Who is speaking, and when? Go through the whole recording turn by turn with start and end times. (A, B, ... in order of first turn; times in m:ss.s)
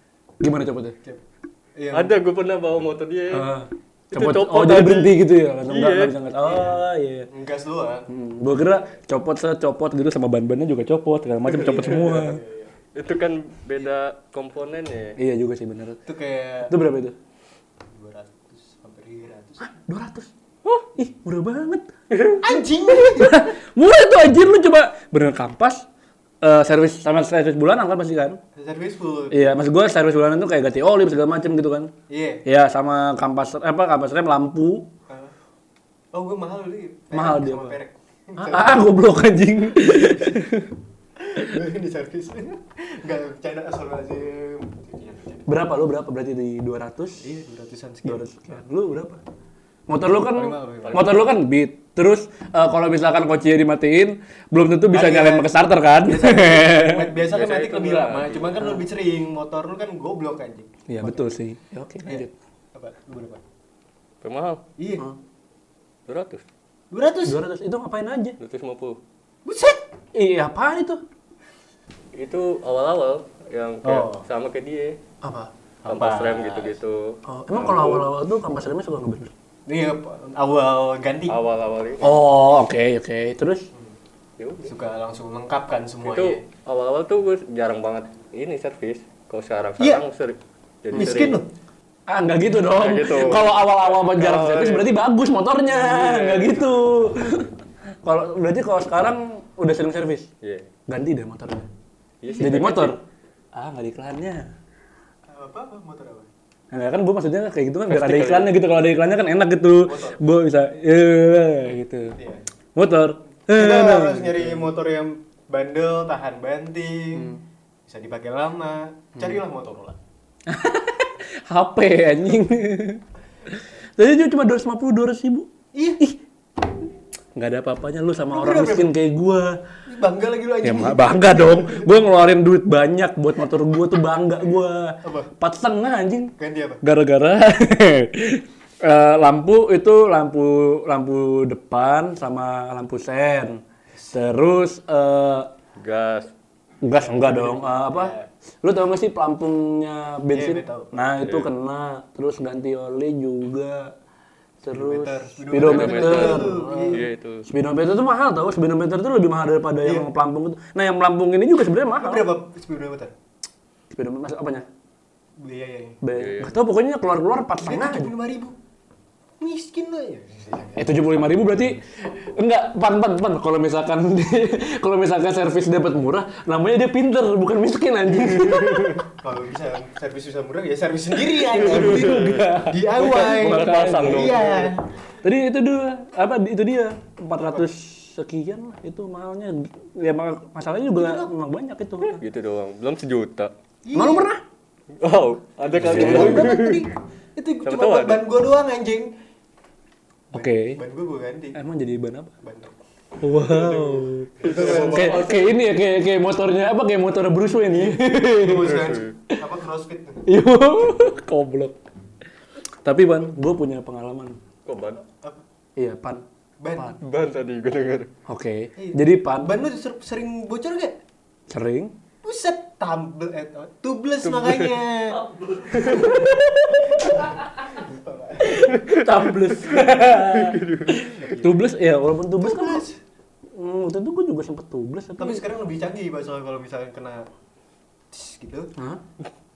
0:00.4-0:01.0 A
0:01.8-0:02.2 B
0:01.9-0:03.5 C
0:03.3-0:07.3 A
0:04.1-0:06.1 C
0:06.4-0:08.1 B
0:08.1-0:12.4 A
0:11.5-0:12.7 B
0:13.0-0:15.2 C
0:15.2-0:16.0 A
0:16.0-0:16.8 B
0:16.7-0:17.1 A
0:17.9-0:19.7 B
0:19.6-0:20.3 A
0:21.0-0:21.9 A
0:22.1-0:22.5 C
0:22.4-0:23.5 B
0:23.1-0:25.9 A
0:26.4-0:28.4 A
0:28.5-0:29.6 B
0:29.3-0:31.9 A
0:32.1-0:32.4 B
0:32.4-0:34.9 A
0:35.1-0:35.3 B
0:36.1-0:38.9 B
0:37.1-0:37.8 A
0:38.4-0:40.7 A
0:39.9-0:40.4 B
0:41.2-0:45.5 B
0:45.5-0:47.3 A
0:47.2-0:48.6 B
0:48.0-0:49.2 A
0:49.9-0:57.1 A
0:50.0-0:51.2 B
0:50.8-0:51.1 C
0:54.9-1:01.3 B
0:57.2-0:58.6 C
1:00.9-1:02.3 A
1:02.0-1:03.4 B
1:04.2-1:04.6 C
1:04.8-1:05.1 B
1:06.1-1:06.4 C
1:06.9-1:07.4 B
1:07.2-1:08.4 A
1:08.4-1:09.0 C
1:09.4-1:09.8 B
1:10.1-1:11.0 A
1:12.1-1:15.0 C
1:13.8-1:14.2 B
1:15.2-1:15.5 A
1:15.8-1:16.8 B
1:15.9-1:18.0 C
1:17.2-1:19.3 A
1:19.6-1:21.4 B
1:21.3-1:22.2 C
1:22.0-1:23.7 A
1:24.4-1:24.7 C
1:24.6-1:26.4 B
1:26.0-1:31.4 C
1:30.9-1:31.5 B
1:31.0-1:31.4 A
1:32.1-1:40.3 A
1:32.7-1:35.0 C
1:35.7-1:36.7 C
1:40.4-1:40.7 C
1:40.9-1:41.7 A
1:42.2-1:43.0 C
1:42.4-1:43.0 A
1:43.5-1:44.5 A
1:45.3-1:46.3 B
1:46.7-1:52.2 A
1:47.9-1:48.5 C
1:49.8-1:50.2 B
1:52.2-1:52.5 B
1:52.8-1:54.6 A
1:53.5-1:57.3 B
1:57.9-2:00.0 B
2:00.5-2:06.2 A
2:05.7-2:06.0 B
2:07.4-2:09.6 A
2:08.3-2:09.0 B
2:09.9-2:12.0 B
2:10.6-2:25.5 A
2:15.0-2:15.3 B
2:16.4-2:16.8 B
2:25.8-2:26.3 C
2:26.8-2:33.9 A
2:26.9-2:28.3 B
2:30.3-2:31.0 B
2:31.2-2:31.5 C
2:34.6-2:42.3 A
2:34.7-2:37.1 B
2:35.6-2:37.5 C
2:39.8-2:40.1 B
2:41.9-2:43.1 B
2:43.9-2:44.7 A
2:45.4-2:46.0 B
2:46.0-2:48.1 A
2:46.1-2:46.6 C
2:47.6-2:48.6 B
2:49.4-2:51.1 B
2:50.8-2:59.0 A
2:58.3-3:04.9 B
3:01.5-3:04.4 A
3:01.6-3:04.8 C
3:05.2-3:12.2 A
3:07.4-3:07.7 B
3:10.9-3:11.3 B
3:12.1-3:13.5 C
3:13.8-3:14.3 B
3:13.9-3:14.4 A
3:15.0-3:16.9 C
3:15.8-3:19.1 B
3:15.8-3:16.5 A
3:17.6-3:18.2 C
3:20.3-3:21.6 B
3:20.3-3:20.8 A
3:21.5-3:22.3 A
3:22.4-3:22.8 B
3:23.2-3:28.9 A
3:23.4-3:25.3 B
3:24.4-3:25.6 C
3:27.7-3:30.3 B
3:28.6-3:29.1 C
3:30.2-3:31.8 A
3:32.8-3:34.4 A
3:34.6-3:35.0 C
3:35.8-3:36.2 A
3:36.6-3:37.0 B
3:37.0-3:38.1 C
3:38.3-3:39.5 A
3:38.8-3:41.0 B
3:41.5-3:41.9 A
3:42.2-3:46.2 B
3:44.2-3:44.8 C
3:45.5-3:47.5 A
3:45.7-3:46.2 C
3:46.8-3:48.8 B
3:48.4-3:52.8 A
3:48.7-3:51.0 C
3:51.2-3:51.6 B
3:52.4-3:53.0 B
3:53.5-3:55.4 A
3:55.2-3:57.3 B
3:58.1-3:58.7 B